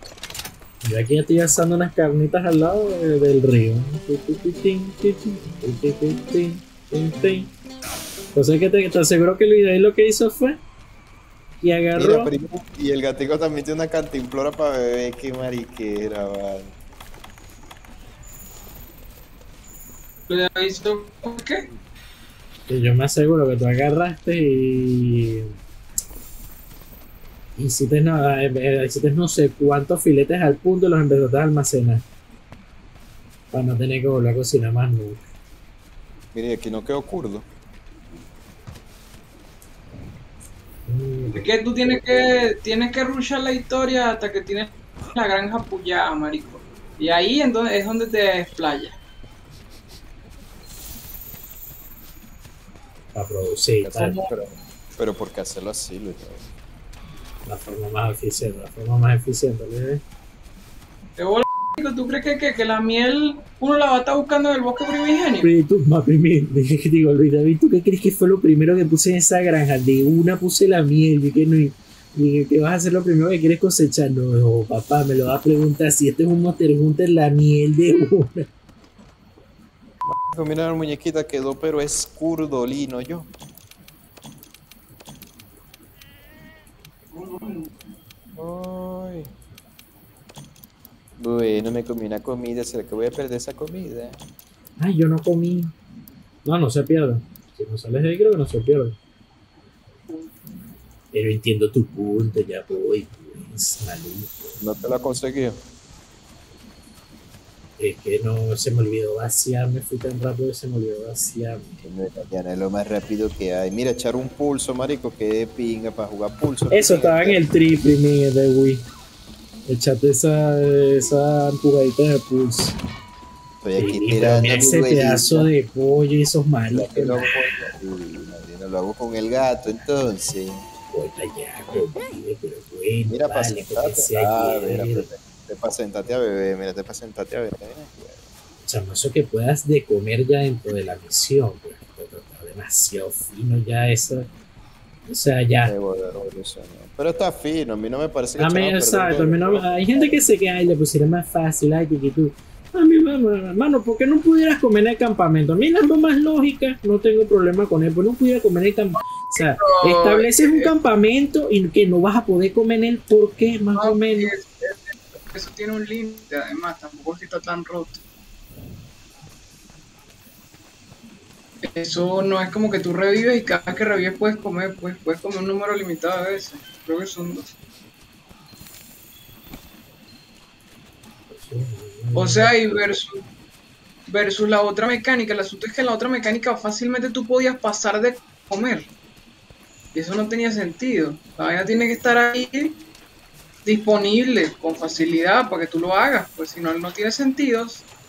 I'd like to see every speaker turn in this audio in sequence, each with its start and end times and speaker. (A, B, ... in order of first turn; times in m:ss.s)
0:00.8-0:07.5 A
0:08.4-0:10.6 A
0:11.6-0:12.3 A
0:12.0-0:16.7 B
0:20.3-0:21.6 C
0:22.7-0:25.6 A
0:27.6-0:32.0 A
0:33.5-0:35.2 A
0:36.3-0:37.5 B
0:40.9-0:41.9 A
0:41.3-0:49.0 C
0:53.2-0:54.2 A
0:53.8-0:56.5 B
0:57.4-1:00.0 A
1:01.2-1:05.5 C
1:05.4-1:18.5 A
1:20.0-1:23.3 B
1:27.1-1:27.7 C
1:28.4-1:29.3 B
1:31.2-1:34.2 B
1:34.8-1:35.7 A
1:36.4-1:39.0 A
1:41.1-1:44.6 A
1:44.6-1:45.6 B
1:47.8-1:51.8 A
1:51.8-1:57.4 B
1:56.7-1:58.8 A
1:59.7-2:02.8 A
2:03.6-2:05.5 B
2:03.8-2:07.3 A
2:06.7-2:10.6 B
2:10.9-2:15.1 A
2:13.1-2:18.2 B
2:18.7-2:24.3 A
2:25.1-2:25.7 A
2:25.6-2:30.2 B
2:28.4-2:44.3 A
2:39.4-2:40.7 C
2:43.8-2:48.0 C
2:51.6-2:57.6 C
3:01.3-3:02.6 A
3:02.2-3:03.2 C
3:04.1-3:08.9 C
3:09.9-3:12.8 C
3:13.6-3:17.8 C